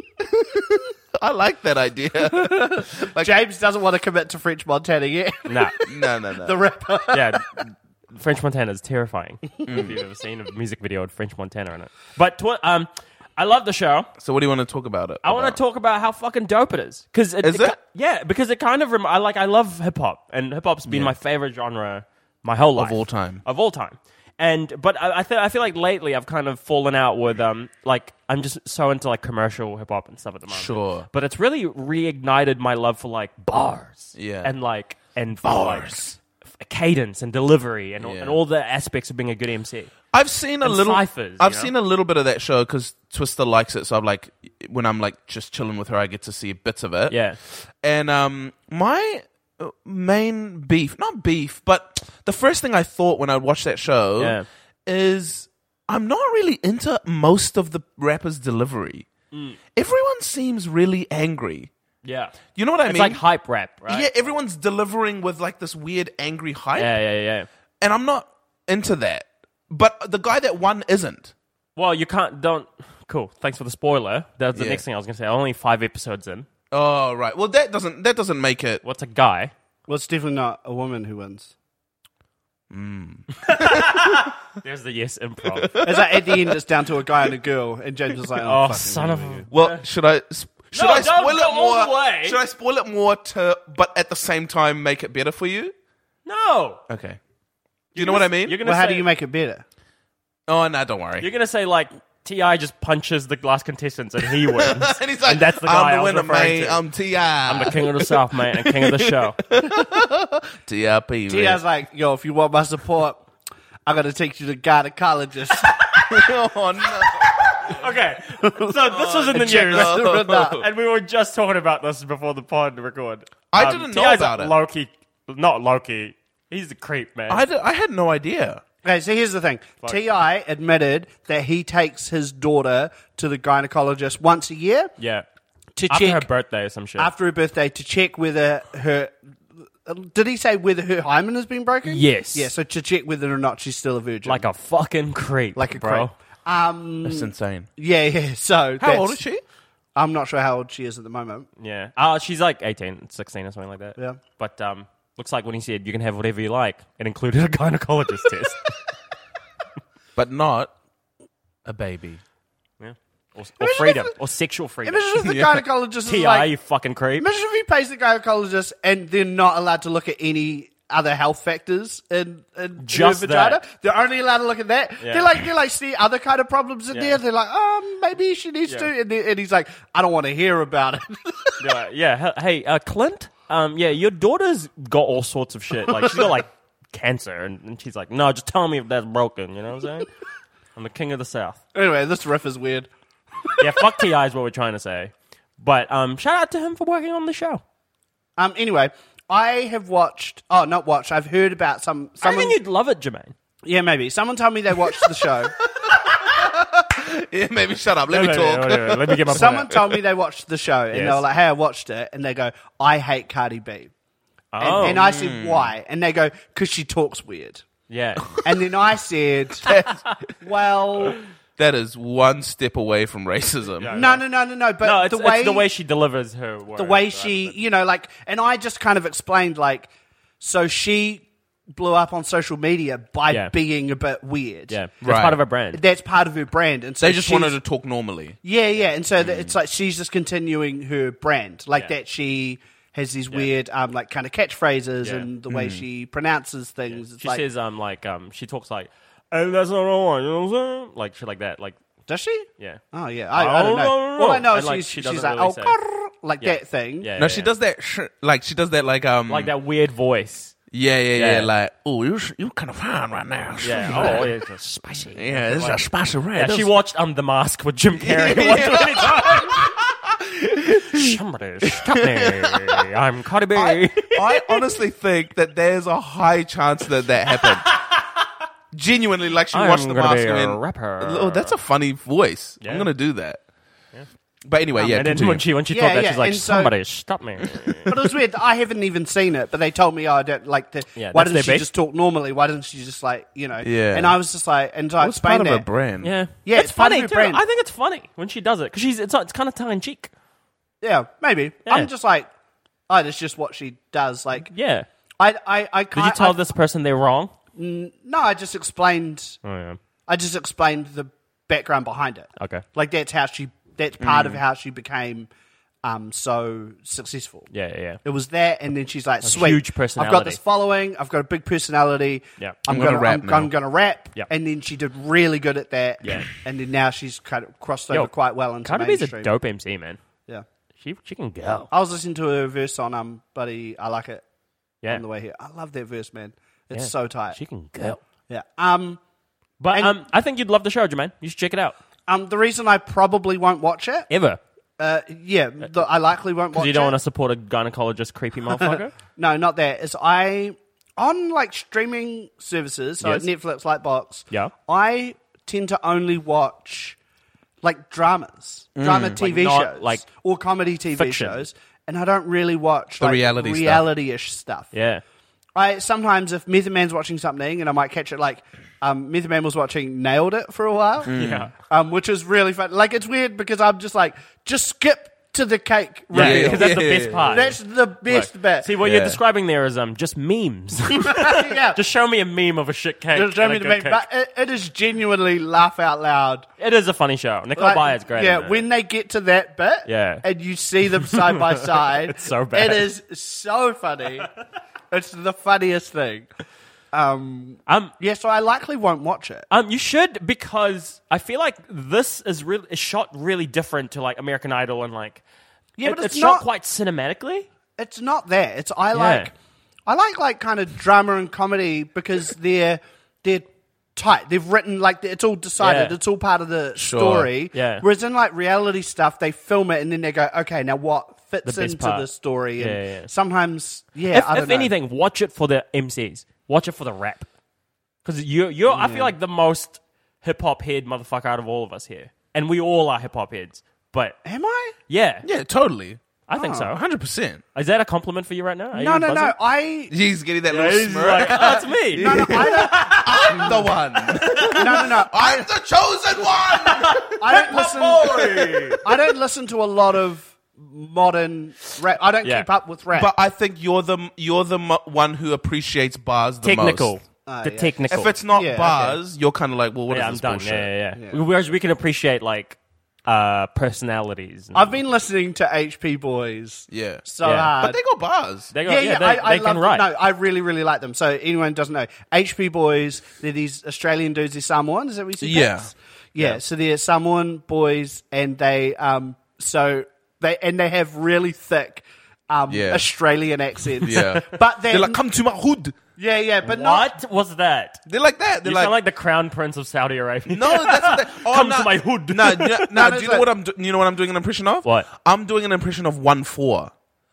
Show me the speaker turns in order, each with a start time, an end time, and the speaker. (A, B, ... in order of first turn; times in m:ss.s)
0:00.4-0:03.3 A
0:02.2-0:07.4 B
0:05.4-0:05.8 C
0:05.8-0:06.6 A
0:07.1-0:14.1 C
0:09.6-0:10.0 A
0:14.2-0:15.6 A
0:15.2-0:39.9 C
0:17.4-0:17.8 A
0:20.8-0:21.1 A
0:22.8-0:23.4 A
0:30.5-0:31.1 A
0:34.1-0:34.5 A
0:35.4-0:36.1 A
0:38.0-0:38.4 A
0:40.1-0:59.1 A
0:40.6-0:41.7 C
0:47.1-0:47.4 C
0:54.2-0:54.5 C
0:59.3-0:59.6 C
0:59.7-1:01.7 A
1:02.0-1:04.3 C
1:02.5-1:03.2 A
1:03.8-1:06.9 A
1:06.8-1:07.5 C
1:07.8-1:11.3 A
1:11.8-1:16.5 C
1:14.5-1:14.8 A
1:16.7-1:18.8 A
1:18.8-1:19.5 C
1:19.9-1:21.5 B
1:22.7-1:24.3 A
1:23.4-1:25.7 C
1:25.6-1:26.5 A
1:25.8-1:29.5 B
1:28.4-1:29.8 C
1:29.5-1:35.7 A
1:30.7-1:32.4 C
1:36.2-1:36.8 C
1:36.9-1:37.2 A
1:37.9-1:38.6 A
1:37.9-1:39.1 C
1:38.6-1:39.6 B
1:40.5-1:41.3 A
1:41.2-1:46.8 C
1:44.5-1:51.6 A
1:47.4-1:49.4 C
1:51.3-1:53.2 B
1:53.8-1:55.7 B
1:56.1-1:57.8 A
1:57.6-2:07.4 C
1:58.4-2:00.6 B
1:58.9-2:00.6 A
2:03.5-2:04.6 A
2:07.3-2:08.6 A
2:08.8-2:14.9 B
2:15.0-2:15.2 C
2:15.7-2:16.3 B
2:15.9-2:17.1 C
2:17.0-2:19.2 B
2:19.8-2:24.5 B
2:21.8-2:22.5 C
2:24.2-2:26.1 C
2:25.6-2:29.2 B
2:27.0-2:27.7 A
2:28.8-2:29.4 A
2:30.0-2:31.5 B
2:31.6-2:38.6 C
2:40.2-2:40.7 A
2:41.6-2:42.2 A
2:42.8-2:45.1 C
2:43.6-2:44.1 B
2:44.8-2:46.5 B
2:45.2-2:45.6 A
2:46.0-2:47.3 C
2:47.2-3:01.7 B
2:52.8-2:53.6 C
2:55.0-2:55.3 C
2:56.9-2:57.2 C
3:01.6-3:10.1 C
3:05.9-3:06.3 B
3:10.8-3:11.6 C
3:11.7-3:12.9 B
3:13.5-3:13.7 B
3:13.6-3:17.6 C
3:18.4-3:22.6 B
3:22.2-3:23.3 C
3:23.6-3:25.5 B
3:25.8-3:29.8 A
3:28.1-3:29.7 C
3:29.3-3:33.9 B
3:30.9-3:31.2 C
3:34.5-3:35.0 C
3:34.6-3:37.6 B
3:34.7-3:35.7 A
3:37.9-3:38.4 C
3:38.4-3:39.7 B
3:39.7-3:40.3 A
3:40.4-3:41.2 B
3:41.6-3:43.9 A
3:43.8-3:44.2 C
3:43.9-3:45.7 B
3:44.8-3:47.6 C
3:46.8-3:54.8 B
3:53.3-3:53.5 C
3:54.7-3:55.8 C
3:55.0-3:55.4 A
3:55.7-3:57.6 B
3:57.0-3:58.4 A
3:58.4-4:07.4 B
3:59.2-3:59.5 A
4:05.0-4:05.3 C
4:05.5-4:05.8 A
4:06.9-4:11.8 C
4:12.1-4:17.1 B
4:13.3-4:15.8 C
4:16.4-4:17.5 C
4:17.2-4:19.5 A
4:19.3-4:20.6 C
4:20.7-4:24.3 A
4:21.1-4:21.5 C
4:23.6-4:25.8 C
4:25.1-4:26.7 A
4:26.3-4:29.6 C
4:28.0-4:32.8 A
4:30.8-4:34.6 C
4:33.5-4:37.7 A
4:38.7-4:43.4 A
4:39.5-4:41.5 C
4:42.6-4:42.9 C
4:44.4-4:45.4 A
4:44.8-4:47.9 C
4:45.7-4:46.7 B
4:47.9-4:55.7 B
4:51.0-4:51.7 C
4:53.6-4:54.2 A
4:55.0-4:56.1 A
4:56.0-5:00.1 C
4:56.4-4:57.4 B
5:00.8-5:02.3 B
5:02.9-5:04.5 B
5:04.5-5:04.9 C
5:05.2-5:06.4 B
5:05.9-5:07.3 C
5:07.5-5:09.4 B
5:09.4-5:09.8 C
5:10.1-5:15.3 B
5:12.4-5:12.6 C
5:14.0-5:14.4 A
5:15.8-5:17.5 B
5:17.5-5:18.0 C
5:18.0-5:29.3 B
5:19.2-5:20.4 C
5:22.7-5:23.5 A
5:26.0-5:26.3 C
5:28.6-5:30.0 C
5:30.8-5:31.7 C
5:31.7-5:34.2 B
5:34.9-5:37.4 B
5:36.7-5:38.0 C
5:38.3-5:39.0 B
5:39.6-5:41.8 C
5:39.7-5:40.0 B
5:42.1-5:44.1 B
5:44.1-5:44.4 C
5:44.8-5:47.0 B
5:46.5-5:48.9 C
5:48.5-5:57.0 B
5:53.0-5:53.3 C
5:57.6-6:04.7 B
5:58.8-5:59.2 A
5:59.2-6:00.0 C
6:00.9-6:01.4 C
6:03.0-6:03.9 A
6:04.7-6:05.0 C
6:05.5-6:18.7 B
6:11.1-6:11.5 A
6:11.1-6:11.5 C
6:16.1-6:24.0 C
6:16.1-6:17.4 A
6:18.8-6:19.2 A
6:21.0-6:21.8 B
6:23.1-6:26.5 B
6:26.6-6:28.6 C
6:27.6-6:34.3 B
6:29.8-6:30.2 C
6:31.1-6:32.9 C
6:34.9-6:36.3 B
6:36.9-6:39.5 B
6:37.7-6:37.9 C
6:39.5-6:45.2 C
6:45.8-6:46.5 B
6:45.8-6:47.5 C
6:47.8-6:49.3 B
6:48.9-6:49.3 C
6:49.9-7:04.7 B
6:55.6-6:56.0 C
6:56.8-6:57.3 A
6:57.5-6:57.8 C
7:01.4-7:03.1 C
7:04.1-7:07.3 C
7:08.0-7:14.2 C
7:08.7-7:09.1 B
7:14.2-7:14.8 B
7:14.9-7:15.2 C
7:15.2-7:16.0 A
7:16.3-7:16.8 C
7:16.3-7:16.7 B
7:16.7-7:17.4 A
7:17.5-7:19.4 C
7:18.7-7:19.9 B
7:19.9-7:27.2 A
7:20.5-7:23.6 C
7:22.0-7:23.7 B
7:24.2-7:24.6 C
7:24.4-7:25.5 B
7:26.6-7:28.8 C
7:27.2-7:33.1 B
7:32.9-7:36.9 A
7:36.4-7:38.1 C
7:37.2-7:39.0 B
7:37.9-7:40.7 A
7:39.9-7:44.8 C
7:40.9-7:41.2 B
7:44.5-7:47.8 B
7:46.7-7:47.0 A
7:47.2-7:47.5 C
7:47.6-7:48.5 A
7:48.5-7:49.8 C
7:48.6-8:05.0 B
7:55.2-7:56.4 A
8:02.5-8:02.8 A
8:03.8-8:05.7 A
8:06.0-8:06.9 B
8:06.4-8:07.8 C
8:07.9-8:08.7 A
8:08.4-8:12.6 C
8:10.3-8:16.7 A
8:12.7-8:13.3 B